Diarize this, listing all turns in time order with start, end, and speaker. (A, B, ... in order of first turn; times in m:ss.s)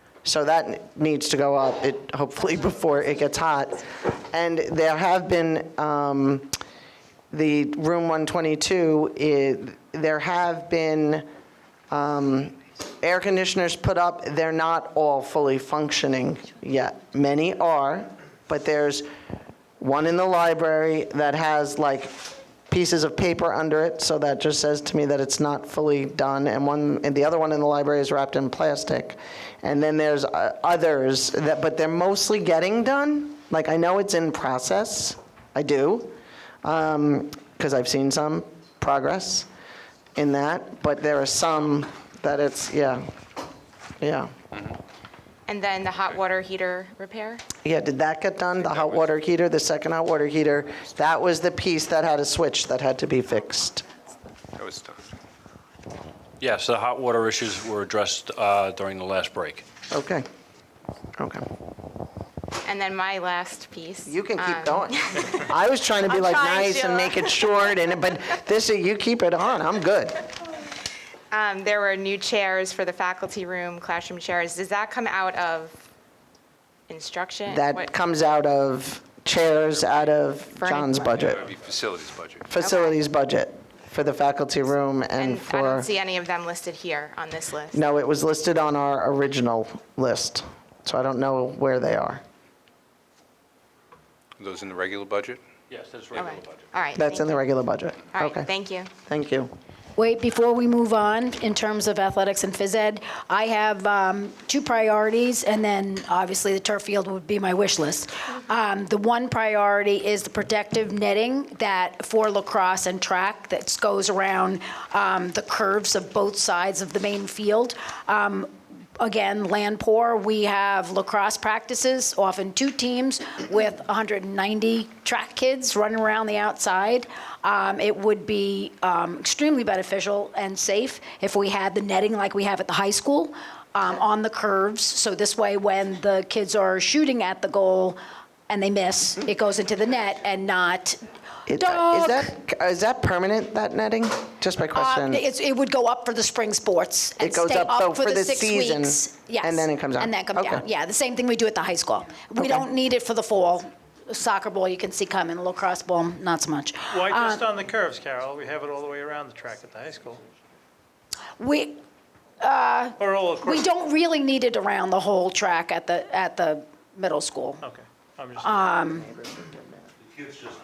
0:00.2-0:06.6 A
0:07.3-0:11.3 A
0:11.9-0:19.1 A
0:19.8-0:39.5 A
0:40.2-0:43.1 A
0:44.0-0:44.4 A
0:45.5-0:47.5 B
0:47.6-0:53.8 A
0:48.7-0:49.0 C
0:54.6-0:55.1 C
0:56.4-0:59.6 D
0:59.9-1:00.3 A
1:01.2-1:01.4 A
1:02.6-1:05.4 B
1:04.1-1:10.2 A
1:06.1-1:07.3 B
1:11.3-1:15.8 B
1:16.9-1:17.9 B
1:17.5-1:21.5 A
1:20.5-1:21.4 B
1:21.2-1:22.5 C
1:22.5-1:25.9 A
1:22.6-1:23.0 B
1:25.2-1:27.8 B
1:27.7-1:32.2 A
1:34.4-1:35.4 C
1:35.7-1:36.7 D
1:36.2-1:37.5 B
1:37.0-1:38.5 A
1:38.1-1:38.9 B
1:39.1-1:39.5 A
1:40.0-2:22.3 E
2:21.5-2:25.2 A
2:24.8-2:37.5 E
2:27.2-2:30.6 A
2:32.4-2:32.7 A
2:36.9-2:40.2 F
2:41.4-2:41.8 E
2:42.4-2:47.6 E
2:43.0-2:43.7 F
2:47.6-2:48.5 F
2:48.4-2:49.1 E
2:49.2-2:49.5 A